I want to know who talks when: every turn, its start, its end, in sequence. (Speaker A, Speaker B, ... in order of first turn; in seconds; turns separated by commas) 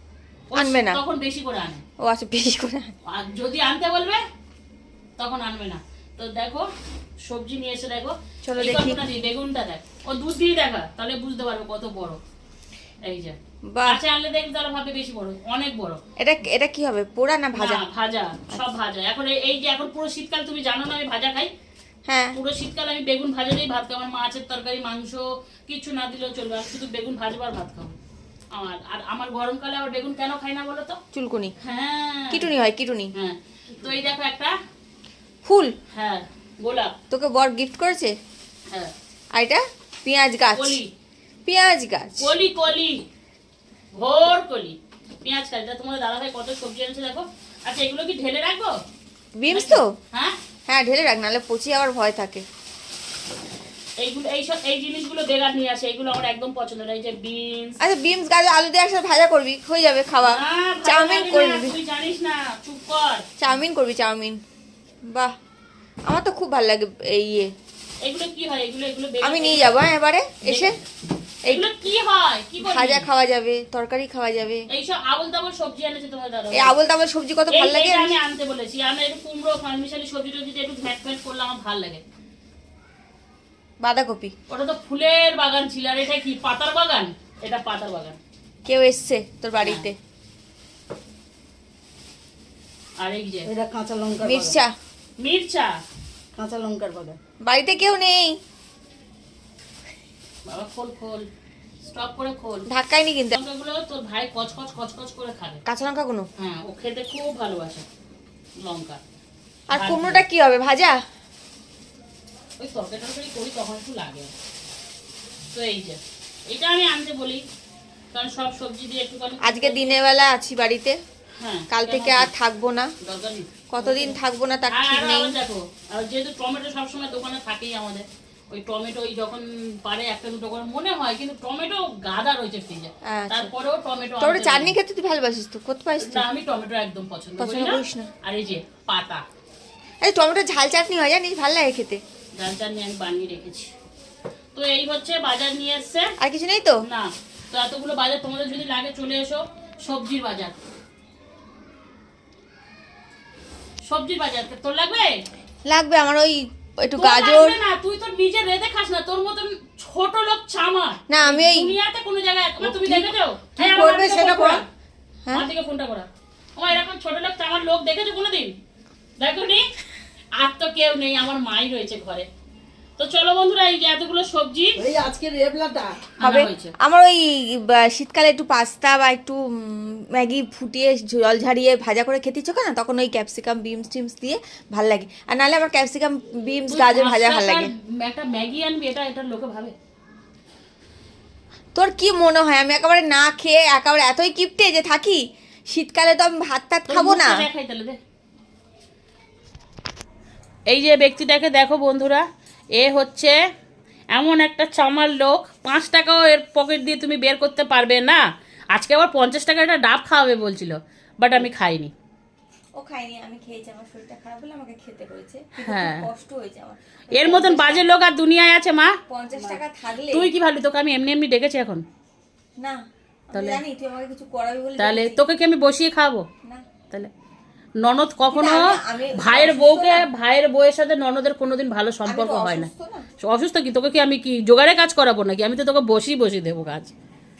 Speaker A: 0.5-1.8, Speaker B: 0.6-1.0, Speaker B: 2.0-2.9, Speaker A: 3.1-4.2, Speaker A: 5.2-6.7, Speaker A: 7.3-12.2, Speaker B: 8.4-9.0, Speaker A: 13.1-16.0, Speaker B: 13.7-14.0, Speaker B: 16.2-17.8, Speaker A: 17.6-21.5, Speaker B: 22.1-22.4, Speaker A: 22.3-28.0, Speaker A: 28.5-31.0, Speaker B: 31.1-31.5, Speaker A: 31.6-32.5, Speaker B: 32.3-33.1, Speaker A: 33.1-34.6, Speaker B: 35.5-35.7, Speaker A: 35.9-36.9, Speaker B: 37.1-38.1, Speaker B: 39.3-40.8, Speaker A: 40.5-40.9, Speaker B: 41.5-42.3, Speaker A: 42.2-43.0, Speaker A: 43.9-48.8, Speaker B: 49.4-49.9, Speaker A: 49.5-50.4, Speaker B: 50.7-52.4, Speaker A: 54.0-57.8, Speaker B: 57.8-61.7, Speaker A: 60.2-63.3, Speaker B: 63.4-64.4, Speaker B: 65.1-65.3, Speaker B: 66.1-67.5, Speaker A: 68.0-69.7, Speaker B: 69.2-70.8, Speaker A: 70.4-70.8, Speaker A: 71.5-73.1, Speaker B: 72.6-74.7, Speaker A: 74.7-76.8, Speaker B: 76.5-78.2, Speaker A: 77.5-82.0, Speaker B: 83.8-84.3, Speaker A: 84.5-88.2, Speaker B: 88.7-90.0, Speaker A: 89.6-89.9, Speaker A: 93.0-93.5, Speaker C: 93.5-94.6, Speaker B: 94.2-94.7, Speaker A: 95.2-95.8, Speaker C: 96.4-97.2, Speaker B: 97.4-98.4, Speaker A: 100.5-101.2, Speaker A: 101.9-102.7, Speaker B: 102.7-103.4, Speaker A: 103.3-105.6, Speaker B: 105.7-106.3, Speaker A: 106.4-107.9, Speaker A: 108.6-109.0, Speaker B: 109.7-111.0, Speaker A: 109.7-110.2, Speaker A: 112.6-114.3, Speaker A: 115.5-117.4, Speaker A: 118.1-120.0, Speaker B: 119.4-121.0, Speaker A: 121.4-122.3, Speaker B: 121.7-122.9, Speaker A: 123.0-124.2, Speaker B: 123.7-125.4, Speaker A: 124.7-134.8, Speaker B: 133.1-133.5, Speaker B: 134.2-136.3, Speaker A: 136.0-139.2, Speaker B: 137.4-138.1, Speaker B: 140.0-142.0, Speaker A: 142.4-143.7, Speaker A: 144.6-146.1, Speaker B: 146.2-146.8, Speaker A: 146.8-150.6, Speaker A: 153.9-155.2, Speaker B: 155.7-157.6, Speaker A: 157.0-164.7, Speaker B: 161.1-161.8, Speaker B: 162.6-164.6, Speaker A: 165.3-168.6, Speaker A: 169.2-169.7, Speaker A: 170.4-172.3, Speaker A: 173.0-174.8, Speaker C: 174.8-176.1, Speaker A: 176.2-176.7, Speaker B: 176.2-187.7, Speaker A: 186.7-189.8, Speaker B: 191.8-197.5, Speaker A: 196.9-198.0, Speaker A: 200.7-202.2, Speaker A: 202.8-203.4, Speaker A: 204.1-211.9, Speaker B: 212.8-217.9, Speaker A: 215.6-216.1, Speaker A: 217.1-219.6, Speaker B: 219.1-220.3, Speaker A: 220.1-221.8, Speaker B: 222.6-225.2, Speaker A: 223.3-223.6, Speaker A: 224.8-226.3, Speaker A: 227.8-236.9, Speaker B: 228.3-230.1, Speaker B: 232.1-233.1